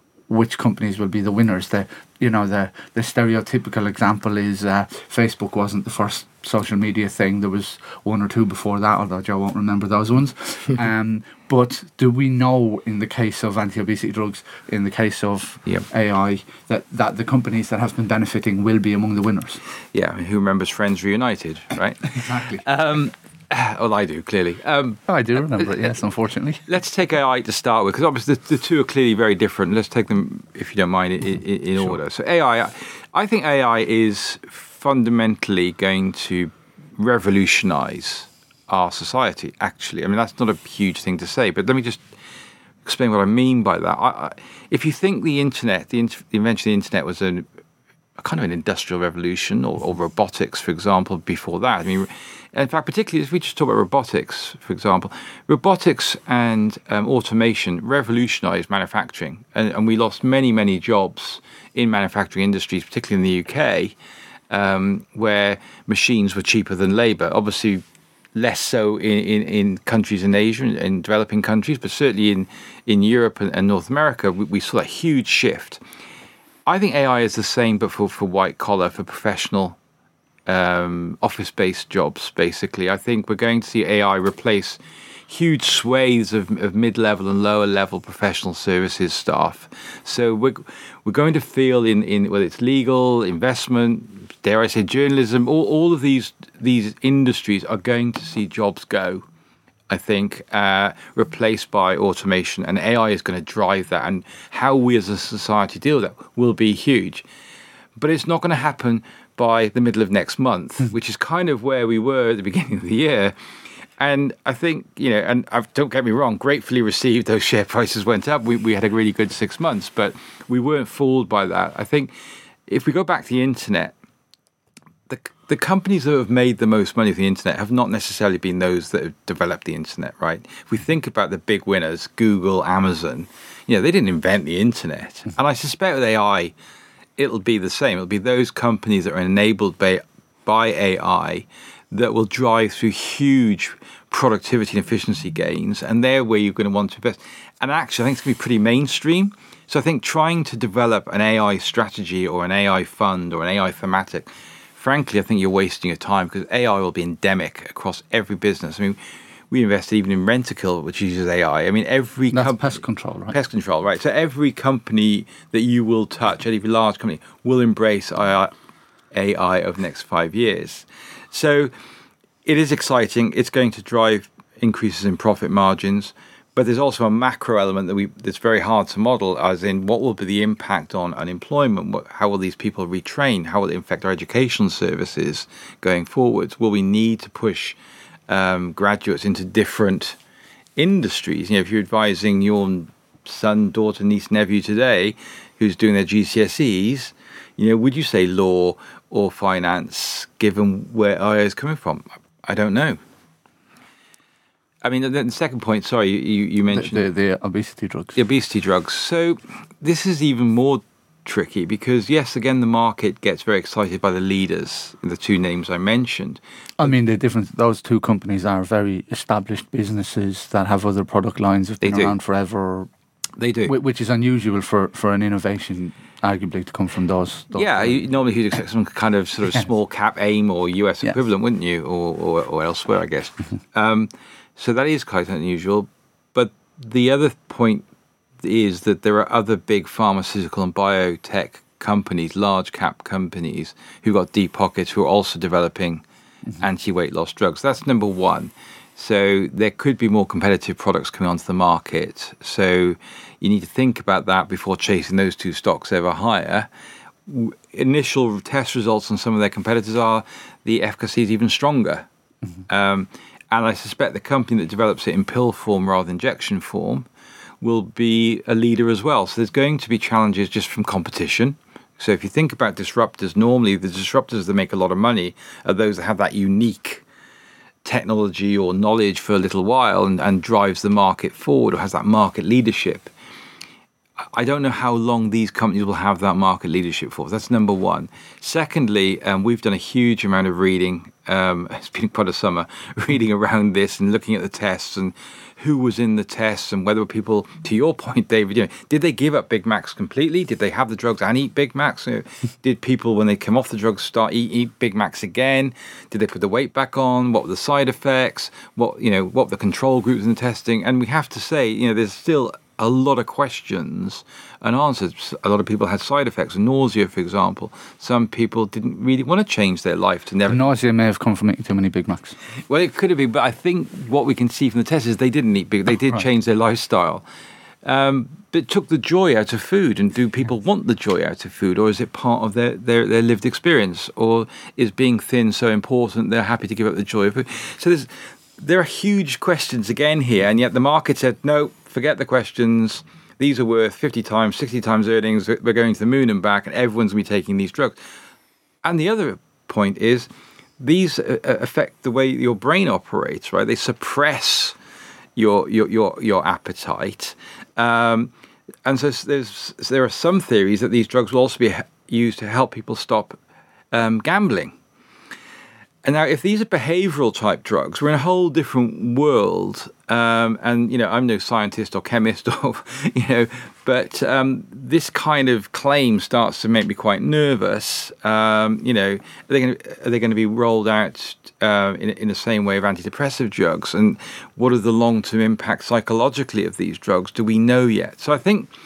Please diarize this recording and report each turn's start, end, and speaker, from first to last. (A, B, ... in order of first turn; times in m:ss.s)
0:00.3-0:19.6 A
0:19.9-0:25.0 B
0:22.1-0:22.6 A
0:25.1-0:26.6 A
0:26.7-0:42.0 B
0:42.8-0:47.4 B
0:48.2-1:03.9 B
1:04.5-1:07.8 B
1:08.3-1:15.8 B
1:16.6-1:19.8 B
1:20.5-1:39.2 B
1:39.9-1:47.2 B
1:48.0-1:53.3 B
1:54.0-2:02.1 B
2:02.7-2:03.9 B
2:05.1-2:16.5 B
2:17.2-2:39.0 B
2:39.5-2:42.7 B
2:42.3-2:43.4 A
2:43.3-2:48.5 B
2:49.1-2:51.7 B
2:52.4-3:07.8 B
3:08.3-3:10.2 B
3:10.8-3:23.0 B
3:24.8-3:27.0 B
3:26.7-3:28.2 A
3:28.2-3:36.4 B
3:36.8-3:42.9 A
3:41.8-3:42.2 B
3:43.4-3:43.7 B
3:43.6-3:48.0 A
3:47.5-3:57.8 B
3:58.4-4:06.0 B
4:06.6-4:16.7 B
4:17.3-4:22.1 B
4:22.7-4:27.0 B
4:27.6-4:37.0 B
4:37.8-4:43.1 B
4:44.3-5:20.7 B
5:20.5-5:22.4 A
5:22.7-5:27.2 B
5:27.8-5:48.0 B
5:48.8-5:50.3 B
5:50.8-5:54.8 B
5:55.4-5:58.3 B
5:58.8-6:03.4 B
6:03.9-6:04.7 B
6:06.0-6:28.7 B